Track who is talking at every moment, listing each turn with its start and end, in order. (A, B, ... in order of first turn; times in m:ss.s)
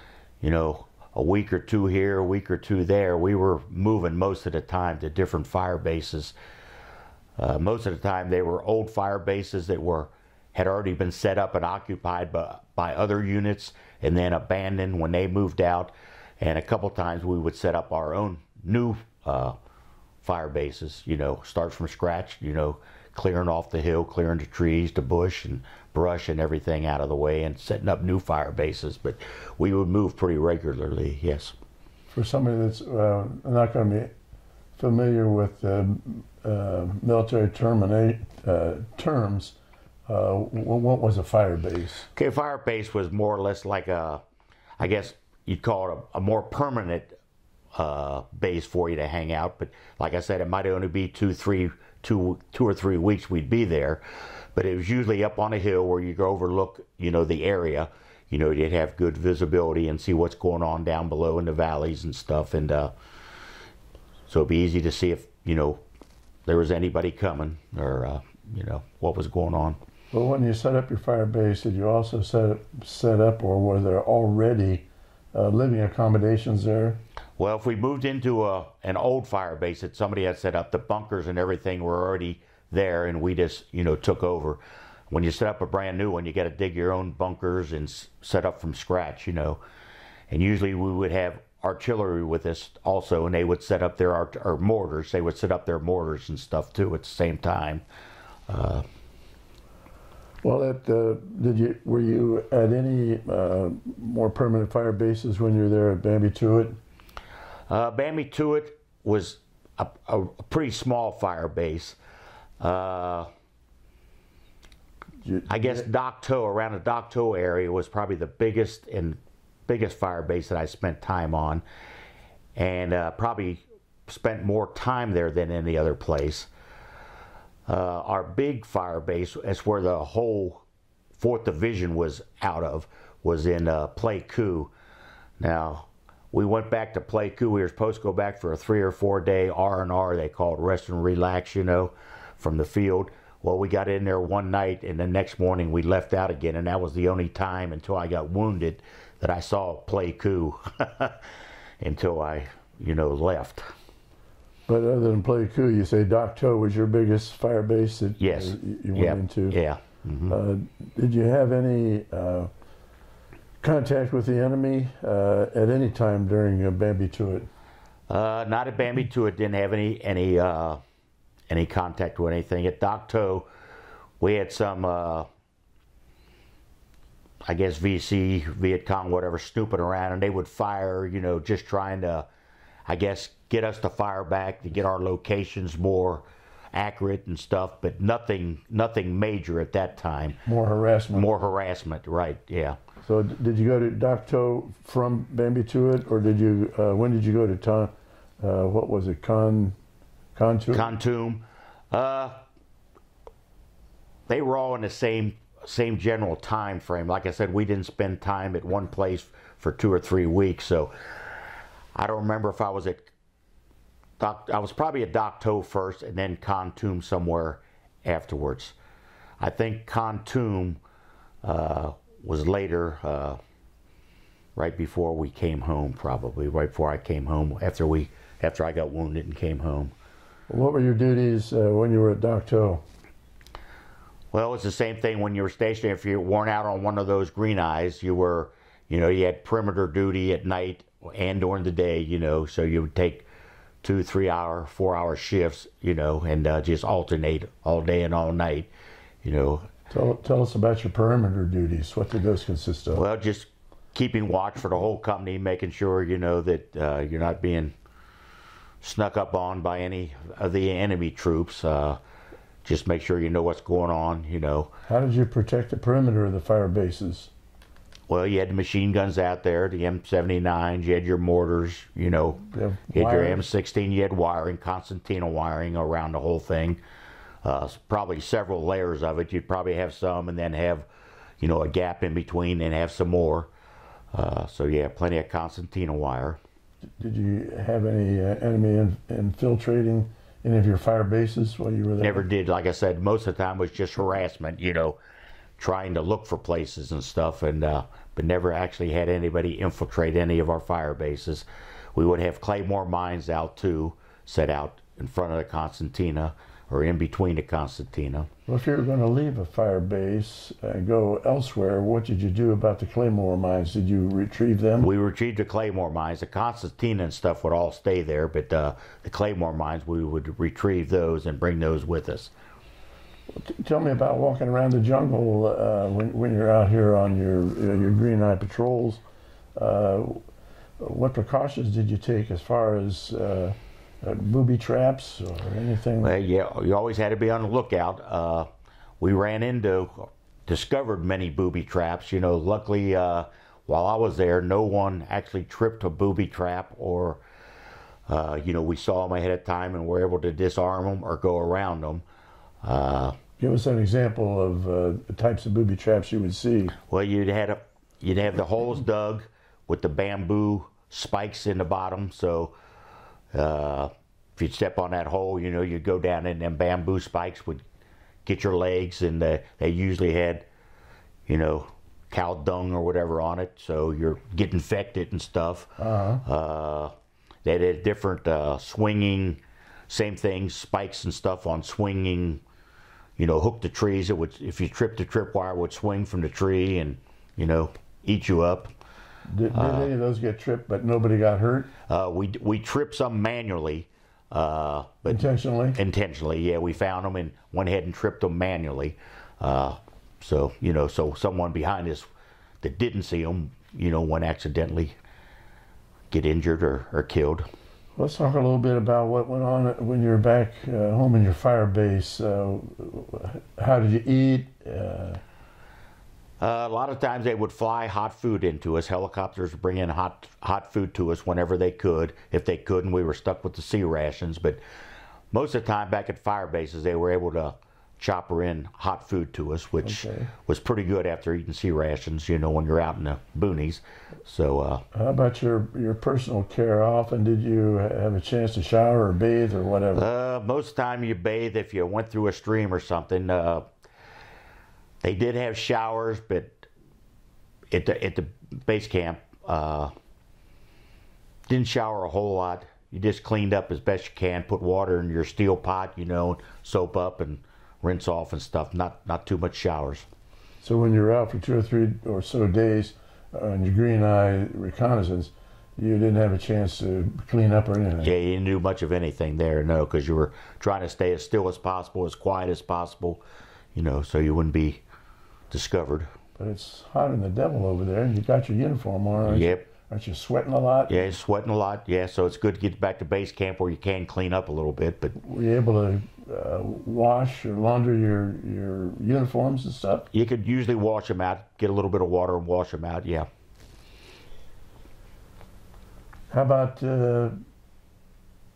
0:00.4-0:06.3 A
0:07.4-0:19.6 A
0:20.2-0:31.5 A
0:32.1-0:34.1 B
0:34.8-0:39.6 B
0:40.1-0:42.1 B
0:42.1-0:44.2 A
0:44.8-0:47.2 A
0:47.7-0:54.0 A
0:54.5-1:02.9 A
1:04.3-1:05.8 A
1:06.4-1:09.8 A
1:10.1-1:17.0 B
1:17.4-1:29.6 A
1:30.3-1:37.8 A
1:38.5-1:38.8 A
1:40.4-1:46.8 B
1:47.7-1:52.0 A
1:52.6-1:53.3 A
1:55.2-1:55.8 B
1:55.5-2:01.6 A
2:02.5-2:06.5 A
2:07.7-2:10.6 A
2:11.2-2:14.7 A
2:15.4-2:31.2 A
2:31.8-2:33.7 A
2:34.7-2:39.6 B
2:38.2-2:40.4 A
2:40.3-2:42.5 B
2:43.6-2:47.5 B
2:48.1-2:50.8 A
2:51.5-2:53.5 A
2:54.2-2:55.3 A
2:57.4-3:02.3 A
3:02.9-3:10.4 A
3:10.4-3:11.4 B
3:11.1-3:12.8 A
3:13.0-3:19.8 B
3:20.3-3:20.9 B
3:20.7-3:22.4 A
3:24.3-3:30.9 A
3:31.9-3:33.1 A
3:34.2-3:38.7 A
3:39.4-3:40.8 A
3:41.4-3:43.4 A
3:44.6-3:49.9 A
3:50.5-3:52.8 B
3:54.3-4:03.3 A
4:03.8-4:08.7 A
4:09.2-4:09.7 A
4:09.9-4:13.0 B
4:12.9-4:17.7 A
4:18.8-4:22.0 A
4:22.6-4:24.7 A
4:24.8-4:27.3 B
4:28.1-4:36.8 A
4:32.5-4:33.4 B
4:37.4-4:40.9 A
4:41.4-4:43.5 A
4:44.1-4:46.4 A
4:47.0-4:52.2 B
4:52.0-4:55.0 A
4:55.6-5:08.3 A
5:08.5-5:14.9 B
5:14.8-5:22.3 A
5:23.3-5:29.0 B
5:29.6-5:30.2 B
5:30.8-5:36.1 B
5:36.0-5:38.5 A
5:39.0-5:47.2 A
5:48.1-5:52.0 A
5:52.6-5:53.2 A
5:53.4-5:56.8 B
5:56.8-6:02.6 A
6:03.3-6:07.6 A
6:08.2-6:10.5 A
6:11.3-6:15.7 A
6:15.8-6:16.2 B
6:16.2-6:16.9 A
6:17.4-6:22.4 A
6:23.2-6:28.7 A
6:29.3-6:31.7 B
6:29.5-6:29.9 A
6:31.9-6:42.1 A
6:35.1-6:35.8 B
6:42.6-6:45.0 A
6:46.1-6:47.5 A
6:48.0-6:55.2 B
6:56.4-7:04.6 A
7:05.3-7:14.8 A
7:09.8-7:10.3 B
7:14.9-7:20.0 B
7:19.9-7:23.7 A
7:25.0-7:26.7 A
7:27.7-7:29.9 A
7:31.5-7:40.1 A
7:40.6-7:48.1 B
7:48.0-7:53.2 A
7:53.7-7:54.8 A
7:55.5-7:56.1 A
7:56.4-8:01.1 B
7:59.2-7:59.6 A
8:00.9-8:05.2 A
8:05.2-8:10.1 B
8:10.1-8:13.3 A
8:16.3-8:17.4 B